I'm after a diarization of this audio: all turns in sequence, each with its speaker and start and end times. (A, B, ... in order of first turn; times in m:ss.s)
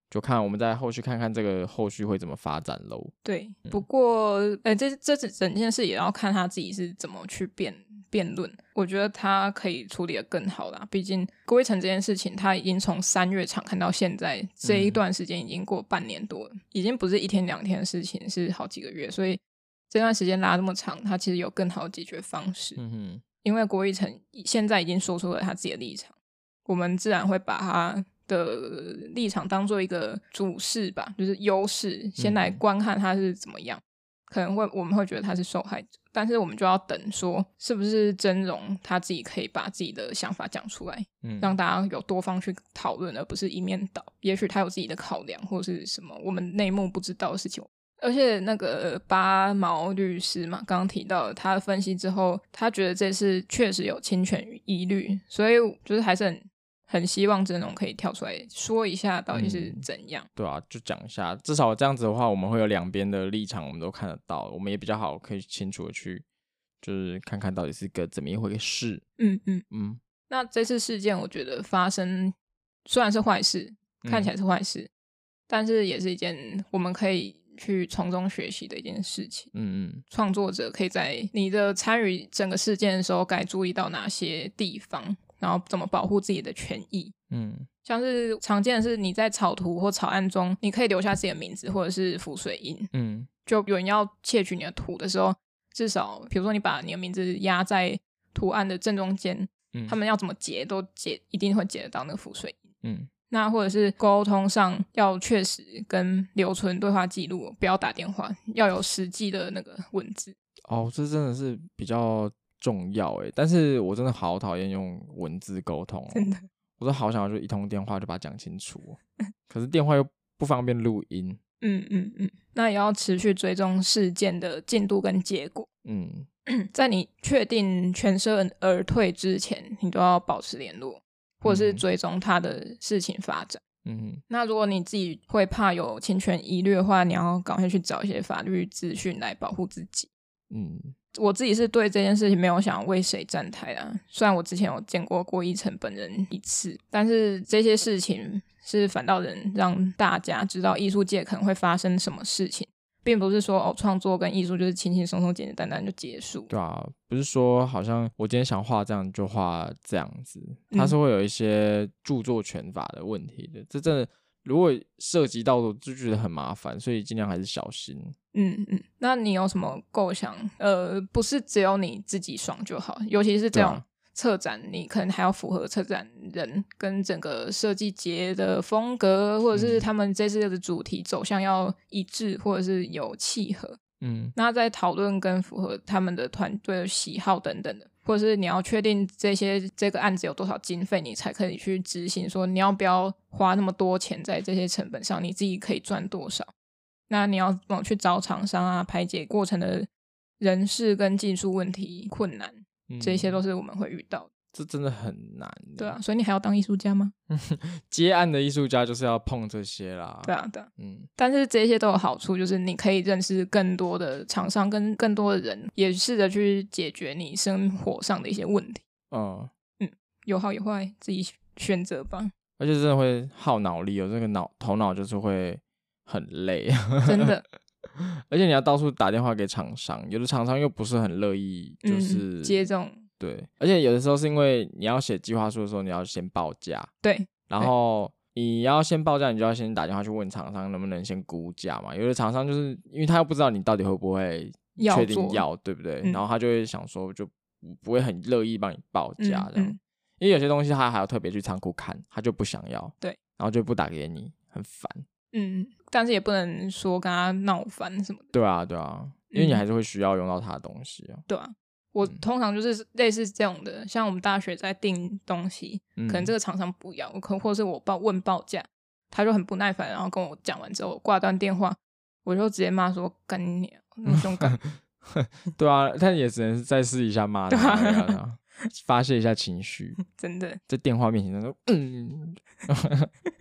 0:00.1-0:03.1 A
0:03.2-0:22.8 B
0:14.6-0:15.0 A
0:22.8-0:23.2 A
0:23.4-0:26.1 B
0:26.6-1:00.3 B
0:32.2-0:32.6 A
0:41.2-0:41.5 A
0:59.3-0:59.8 A
1:00.4-1:06.2 A
1:06.8-1:09.0 A
1:09.2-1:09.6 B
1:09.7-1:10.0 A
1:10.3-1:14.9 B
1:14.0-1:14.3 A
1:15.5-1:19.5 B
1:19.5-1:20.0 A
1:20.1-1:27.1 B
1:27.3-1:27.7 A
1:27.8-1:32.9 B
1:32.9-1:33.3 A
1:33.4-1:42.6 B
1:42.8-1:43.1 A
1:43.3-1:50.3 B
1:50.7-2:01.4 A
1:56.1-1:56.4 B
2:01.6-2:05.7 B
2:05.8-2:06.3 A
2:06.5-2:13.6 B
2:11.4-2:11.8 A
2:13.8-2:14.2 A
2:14.3-2:20.1 B
2:20.5-2:20.9 A
2:21.1-2:36.5 B
2:36.5-2:48.1 A
2:48.3-3:03.8 B
2:53.5-2:53.8 A
2:59.5-2:59.8 A
3:04.0-3:04.4 A
3:04.4-3:16.5 B
3:17.1-3:19.9 B
3:20.4-3:24.3 B
3:22.9-3:23.4 A
3:24.5-3:26.0 A
3:25.8-3:27.1 B
3:27.3-3:31.1 A
3:30.2-3:38.8 B
3:39.1-3:39.5 A
3:39.8-3:42.3 B
3:42.6-3:47.3 A
3:47.0-3:47.4 B
3:48.0-3:52.6 A
3:51.8-3:53.0 B
3:53.2-3:56.9 A
3:57.0-3:57.7 B
3:57.5-4:15.0 A
4:04.8-4:05.4 B
4:09.2-4:09.8 B
4:15.3-4:18.3 B
4:18.3-4:21.2 A
4:19.3-4:19.6 B
4:21.3-4:34.6 B
4:26.0-4:26.3 A
4:34.1-4:40.0 A
4:37.5-4:38.2 B
4:40.0-4:40.6 B
4:40.7-4:43.1 A